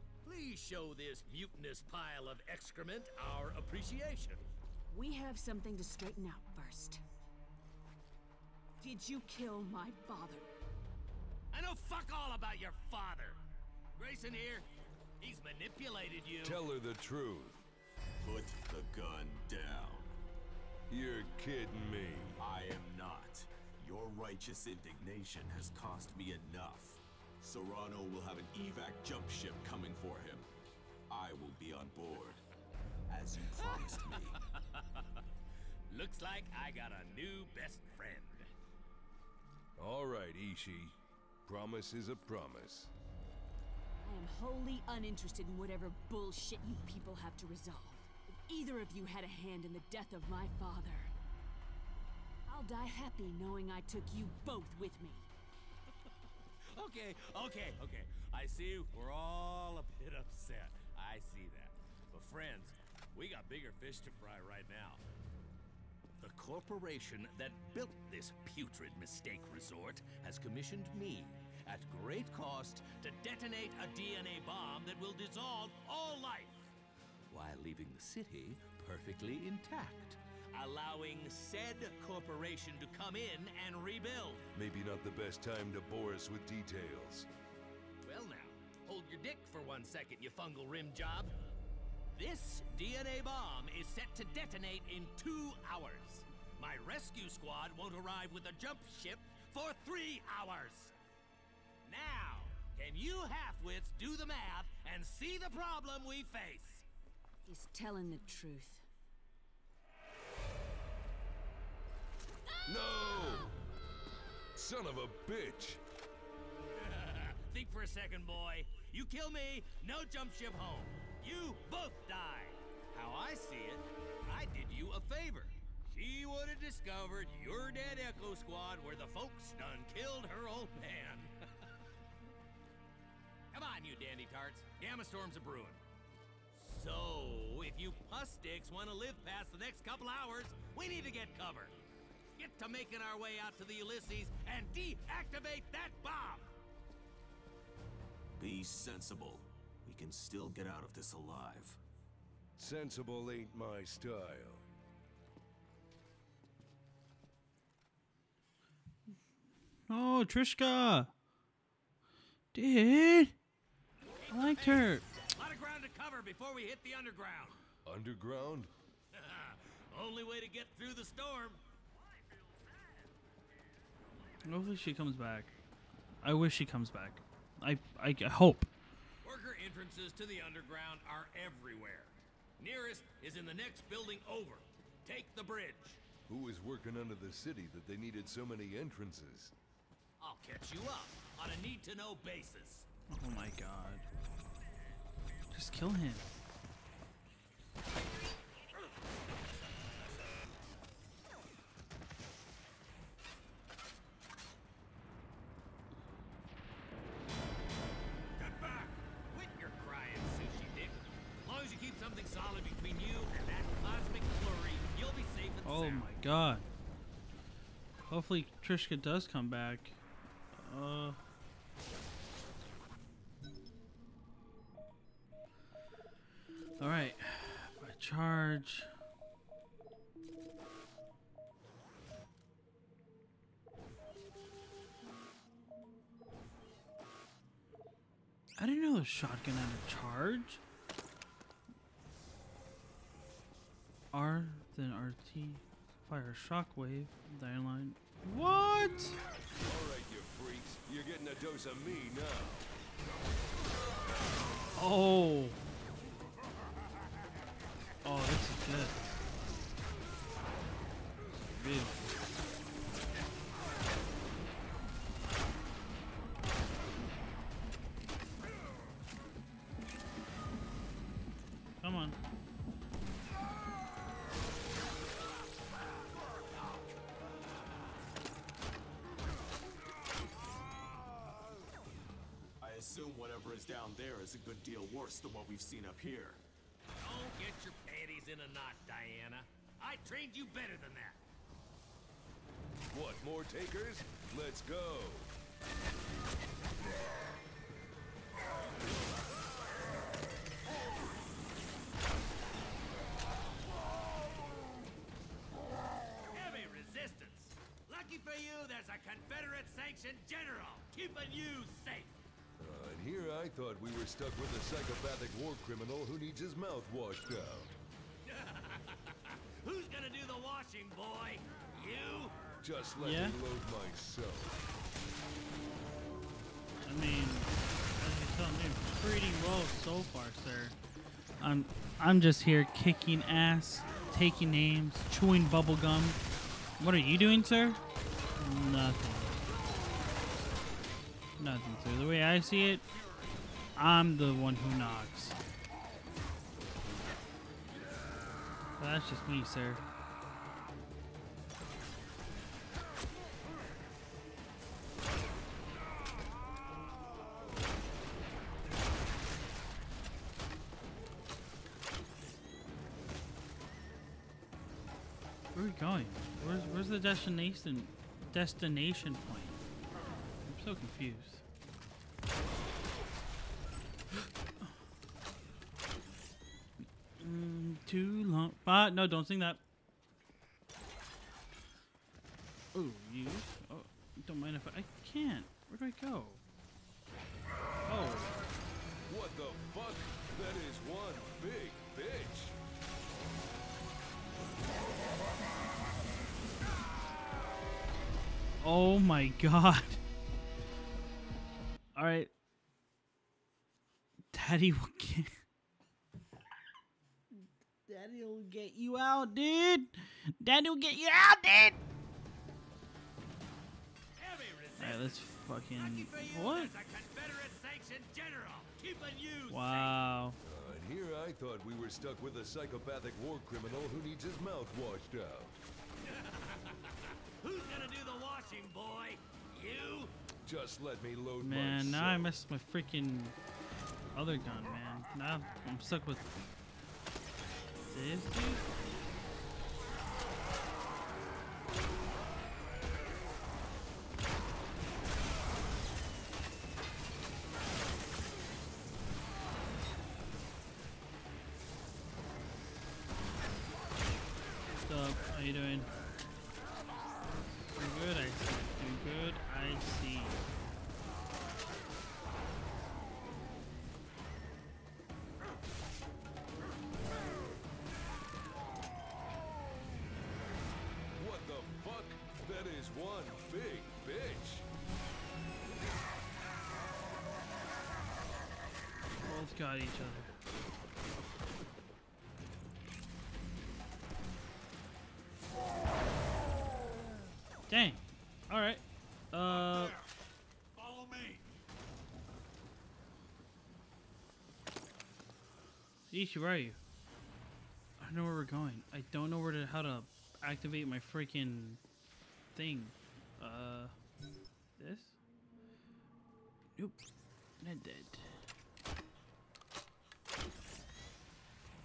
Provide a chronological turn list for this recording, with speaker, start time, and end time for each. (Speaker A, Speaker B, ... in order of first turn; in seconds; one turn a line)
Speaker A: 0.2-4.4
Speaker B: 4.9-7.0
Speaker B: 8.8-10.5
Speaker A: 11.5-13.4
Speaker A: 14.0-14.7
Speaker A: 15.2-16.6
Speaker C: 16.4-17.6
Speaker D: 18.2-20.1
Speaker C: 20.9-22.4
Speaker D: 22.4-30.5
Speaker D: 31.1-32.4
Speaker D: 33.1-34.4
Speaker A: 33.8-34.2
Speaker A: 35.9-38.5
Speaker C: 39.8-42.9
Speaker B: 44.0-51.1
Speaker B: 52.5-55.3
Speaker A: 56.7-65.0
Speaker A: 66.2-76.7
Speaker A: 77.3-84.4
Speaker C: 84.5-87.3
Speaker A: 88.0-91.3
Speaker A: 92.2-100.9
Speaker A: 101.8-106.8
Speaker B: 107.5-108.8
Speaker B: 112.5-113.5
Speaker C: 112.7-113.6
Speaker C: 114.5-115.8
Speaker A: 116.8-131.3
Speaker A: 133.5-135.8
Speaker A: 136.5-141.7
Speaker A: 142.4-146.5
Speaker D: 148.4-151.8
Speaker C: 152.6-154.7
Speaker E: 159.9-161.1
Speaker E: 162.5-163.3
Speaker A: 164.2-167.6
Speaker E: 164.3-165.0
Speaker C: 167.8-168.7
Speaker A: 169.1-171.6
Speaker E: 174.5-175.5
Speaker E: 176.2-178.7
Speaker A: 179.2-186.0
Speaker C: 186.3-189.5
Speaker A: 190.2-192.9
Speaker E: 193.1-194.1
Speaker E: 195.5-196.2
Speaker A: 208.4-216.1
Speaker E: 215.7-216.7
Speaker E: 218.0-220.0
Speaker E: 220.6-221.2
Speaker E: 226.8-228.9
Speaker E: 238.6-240.6
Speaker E: 244.1-249.2
Speaker C: 249.6-252.7
Speaker E: 254.8-255.6
Speaker E: 258.0-259.1
Speaker E: 261.6-262.1
Speaker E: 271.8-272.2
Speaker D: 282.6-286.4
Speaker A: 287.0-291.2
Speaker C: 292.9-295.3
Speaker A: 306.3-312.1
Speaker C: 312.6-317.7
Speaker A: 318.2-322.4
Speaker C: 322.6-324.6
Speaker E: 323.0-323.4
Speaker E: 326.9-330.8
Speaker E: 331.4-336.2
Speaker E: 336.8-337.8
Speaker E: 338.4-339.3
Speaker E: 341.4-342.9
Speaker E: 343.8-345.4
Speaker E: 348.8-349.8
Speaker E: 365.5-369.6
Speaker E: 370.4-371.4
Speaker E: 377.2-379.6
Speaker E: 382.7-386.4
Speaker E: 387.9-388.3
Speaker C: 389.1-392.6
Speaker E: 398.6-400.0
Speaker E: 401.9-402.3
Speaker E: 404.3-405.4
Speaker E: 407.3-411.8
Speaker A: 414.2-420.0
Speaker E: 414.8-416.7
Speaker E: 419.5-420.4
Speaker C: 420.4-425.6
Speaker A: 426.0-430.1
Speaker C: 430.4-432.4
Speaker E: 431.4-433.4
Speaker E: 434.1-436.5
Speaker E: 437.9-438.6
Speaker E: 454.9-455.9
Speaker E: 457.7-460.4
Speaker C: 471.2-474.7
Speaker E: 479.2-480.3
Speaker E: 487.7-489.9
Speaker A: 489.5-490.0
Speaker A: 490.8-491.4
Speaker E: 496.1-496.8
Speaker E: 498.0-501.8
Speaker E: 502.6-503.9
Speaker E: 504.8-505.2
Speaker E: 507.6-508.3